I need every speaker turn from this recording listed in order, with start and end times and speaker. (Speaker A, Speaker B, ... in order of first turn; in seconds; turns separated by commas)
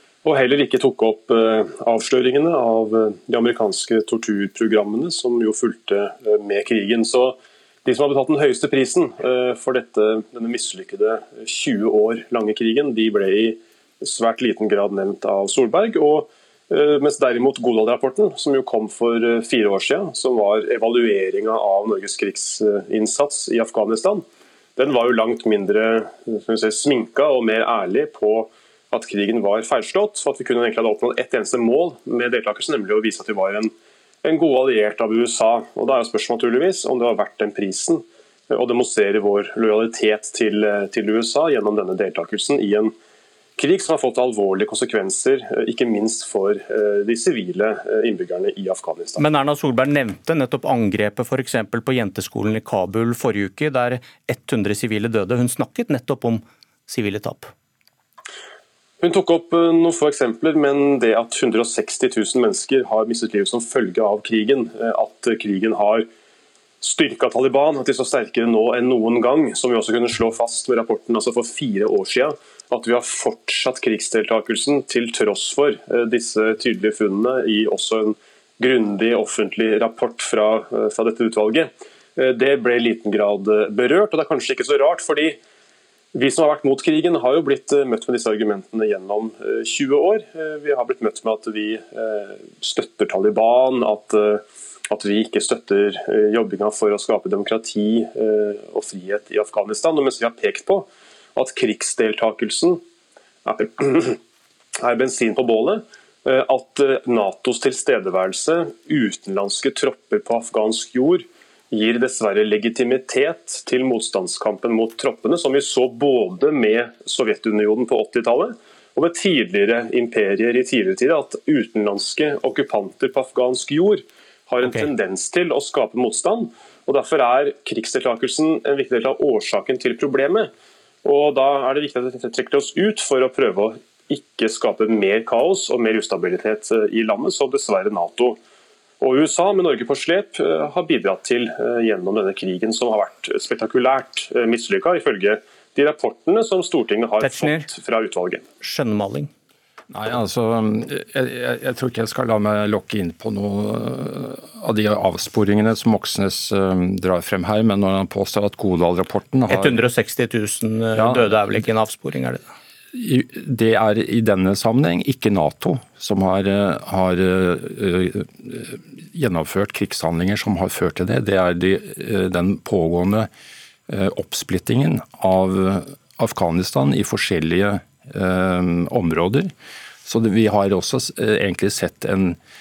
Speaker A: 0.2-24.2, Speaker A: 24.8-33.7, Speaker A: 34.2-42.9, Speaker A: 43.6-49.3, Speaker B: 49.2-57.5, Speaker A: 59.0-66.1, Speaker A: 66.8-85.4, Speaker A: 86.1-102.8, Speaker A: 103.5-104.2, Speaker A: 104.8-130.5, Speaker B: 124.6-124.9, Speaker A: 131.0-138.4, Speaker A: 139.0-148.4, Speaker B: 147.2-147.7, Speaker B: 148.6-149.3, Speaker C: 149.9-159.8, Speaker B: 159.5-162.4, Speaker C: 161.0-161.3, Speaker C: 162.9-173.3, Speaker C: 173.9-179.5, Speaker C: 180.1-182.4